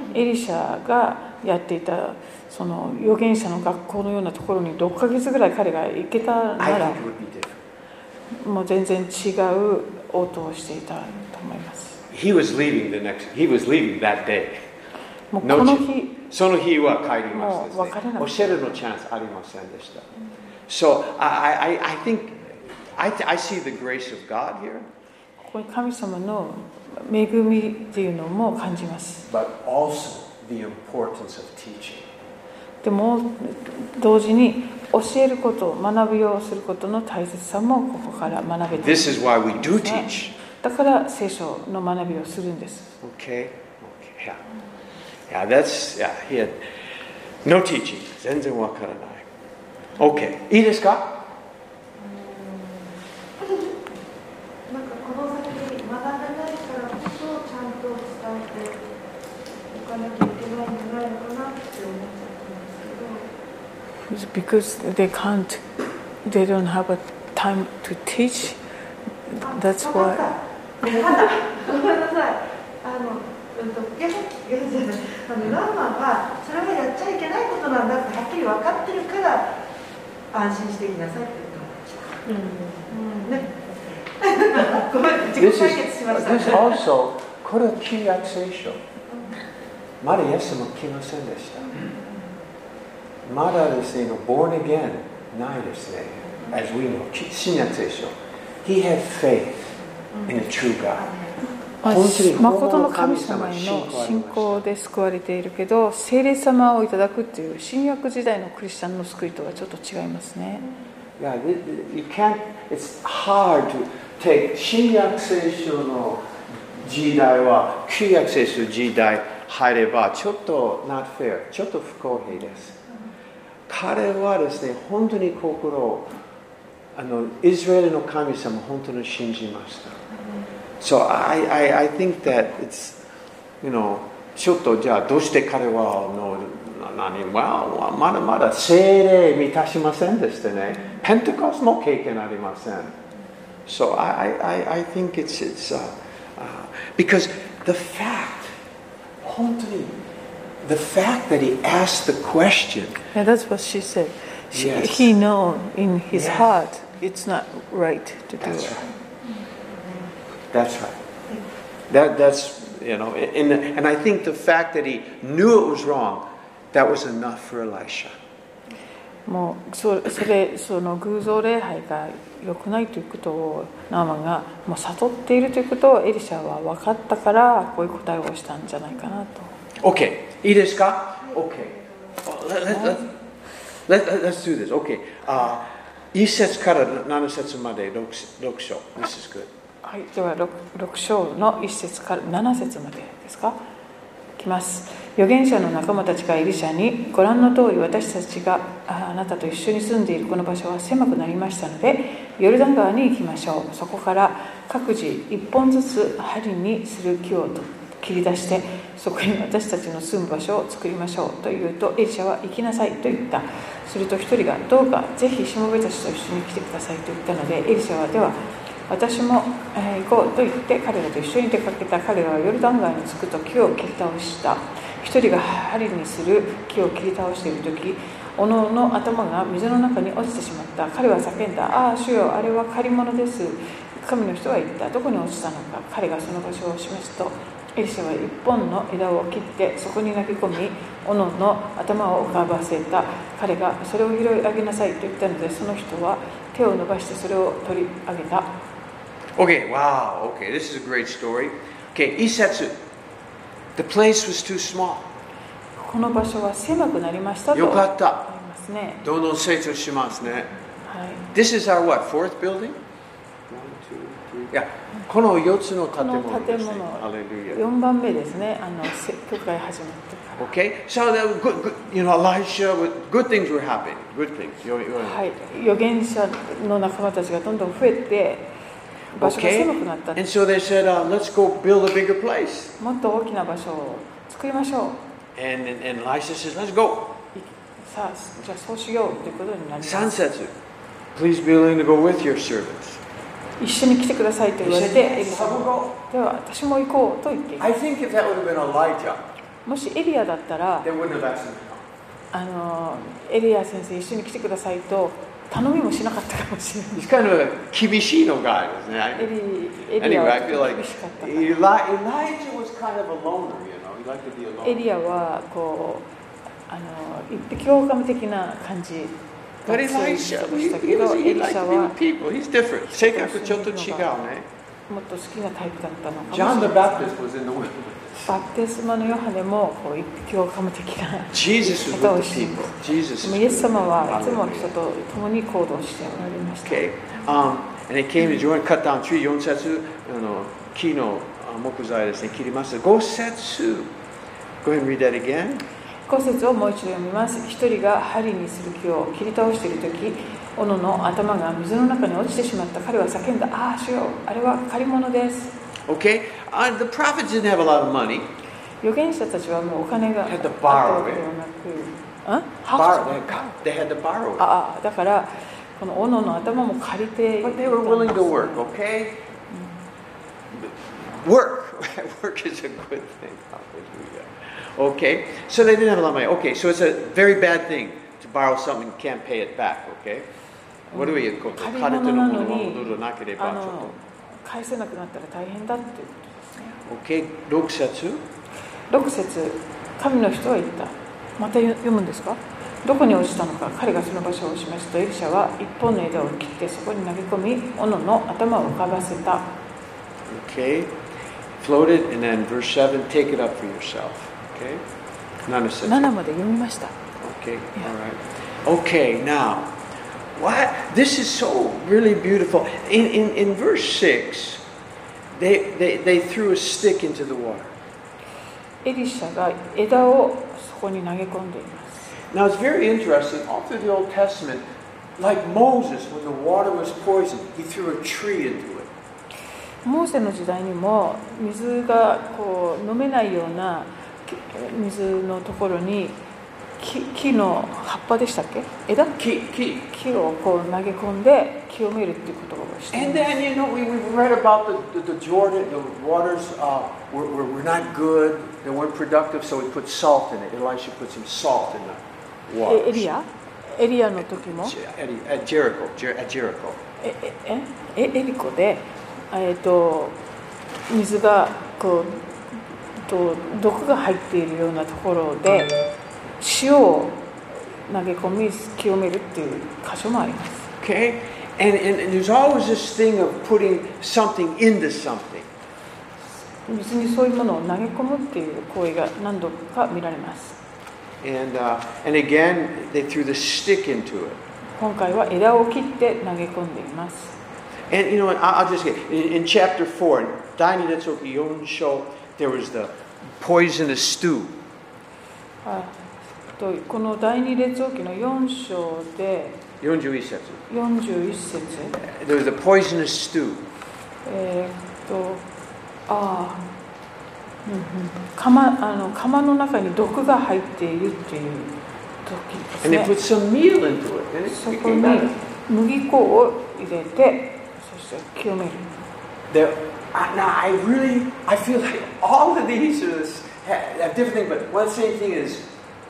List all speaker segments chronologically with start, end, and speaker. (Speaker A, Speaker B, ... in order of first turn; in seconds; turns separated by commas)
Speaker A: 0.1-7.0, Speaker B: 6.6-7.6, Speaker A: 8.3-12.0, Speaker B: 12.1-14.5, Speaker A: 15.3-16.2, Speaker B: 15.4-20.1, Speaker A: 17.3-18.6, Speaker B: 20.7-24.9, Speaker A: 25.4-29.2, Speaker B: 29.2-32.1, Speaker A: 32.8-42.9, Speaker B: 38.8-40.3, Speaker B: 43.0-44.4, Speaker B: 45.3-46.6, Speaker B: 47.4-49.2, Speaker B: 50.0-51.1, Speaker C: 52.0-53.8, Speaker C: 54.7-58.8, Speaker C: 59.7-63.3, Speaker A: 64.1-65.6, Speaker A: 66.2-68.6, Speaker A: 69.3-70.3, Speaker C: 69.4-79.6, Speaker C: 80.3-86.8, Speaker B: 85.3-88.8, Speaker B: 90.0-91.8, Speaker B: 93.2-101.0, Speaker C: 100.1-101.5, Speaker A: 101.8-110.6, Speaker B: 101.8-104.6, Speaker B: 111.2-122.8, Speaker B: 123.7-126.1, Speaker B: 127.0-130.0, Speaker B: 130.8-133.0, Speaker B: 133.6-142.9, Speaker B: 143.7-148.5, Speaker B: 149.2-149.9, Speaker B: 150.6-153.0, Speaker A: 153.1-158.8, Speaker B: 154.5-155.1, Speaker B: 156.1-156.5, Speaker B: 158.4-158.9, Speaker C: 159.7-160.1, Speaker B: 160.5-161.0, Speaker B: 161.9-168.1, Speaker A: 169.2-179.6, Speaker B: 179.8-183.1, Speaker A: 182.7-183.0, Speaker B: 183.9-189.5, Speaker A: 189.8-193.6, Speaker A: 194.4-248.6, Speaker B: 249.3-252.8, Speaker B: 253.8-255.1, Speaker A: 255.8-259.0, Speaker B: 257.5-258.2, Speaker B: 259.0-260.5, Speaker A: 260.8-261.3, Speaker B: 261.3-262.8, Speaker B: 263.5-267.6, Speaker A: 265.9-270.5, Speaker B: 270.4-275.2, Speaker A: 275.0-278.5, Speaker A: 279.1-280.2, Speaker B: 279.1-282.7, Speaker A: 282.8-285.0, Speaker B: 285.4-287.1, Speaker A: 287.3-290.2, Speaker B: 289.8-290.5, Speaker B: 291.1-293.0, Speaker A: 293.6-297.6, Speaker B: 294.6-295.9, Speaker B: 297.6-299.2, Speaker A: 299.6-300.9, Speaker B: 300.8-301.8, Speaker A: 302.3-307.0, Speaker B: 306.9-309.3, Speaker A: 309.2-311.6, Speaker B: 310.0-314.9, Speaker A: 314.6-316.1, Speaker A: 316.7-321.9, Speaker B: 319.7-324.4, Speaker A: 322.9-324.1, Speaker A: 324.9-327.1, Speaker B: 326.3-328.4, Speaker A: 328.3-336.8, Speaker B: 331.3-334.7, Speaker B: 336.6-343.9, Speaker B: 344.6-345.6, Speaker A: 346.1-355.5, Speaker B: 355.9-358.3, Speaker A: 358.8-363.6, Speaker B: 360.2-361.2, Speaker B: 362.7-364.5, Speaker A: 364.4-368.6, Speaker B: 367.4-369.2, Speaker A: 369.5-369.8, Speaker B: 370.5-380.3, Speaker A: 380.9-386.8, Speaker B: 380.9-383.9, Speaker B: 386.8-388.2, Speaker A: 388.9-399.5, Speaker B: 400.3-401.0, Speaker B: 401.6-404.8, Speaker B: 405.4-406.1, Speaker A: 405.8-406.9, Speaker B: 407.2-409.8, Speaker B: 410.4-414.6, Speaker B: 415.3-417.7, Speaker A: 418.8-422.1, Speaker B: 422.3-424.6, Speaker B: 425.2-428.9, Speaker A: 429.8-436.2, Speaker A: 436.8-439.1, Speaker B: 439.2-439.9, Speaker A: 439.9-443.3, Speaker B: 442.9-453.1, Speaker A: 452.6-454.8, Speaker B: 454.3-456.8, Speaker A: 457.0-460.2, Speaker A: 460.9-462.3, Speaker A: 463.0-465.7, Speaker A: 466.4-467.2, Speaker A: 467.8-470.7, Speaker B: 470.8-475.5, Speaker A: 476.6-480.6, Speaker B: 481.2-484.4, Speaker A: 484.7-487.4, Speaker B: 487.9-494.5, Speaker A: 495.6-499.6, Speaker B: 499.8-500.6, Speaker A: 500.7-502.0, Speaker B: 501.9-503.6, Speaker A: 504.2-505.4, Speaker A: 506.1-506.6, Speaker A: 507.6-513.1, Speaker B: 512.8-515.3, Speaker A: 514.5-518.9, Speaker B: 519.5-525.7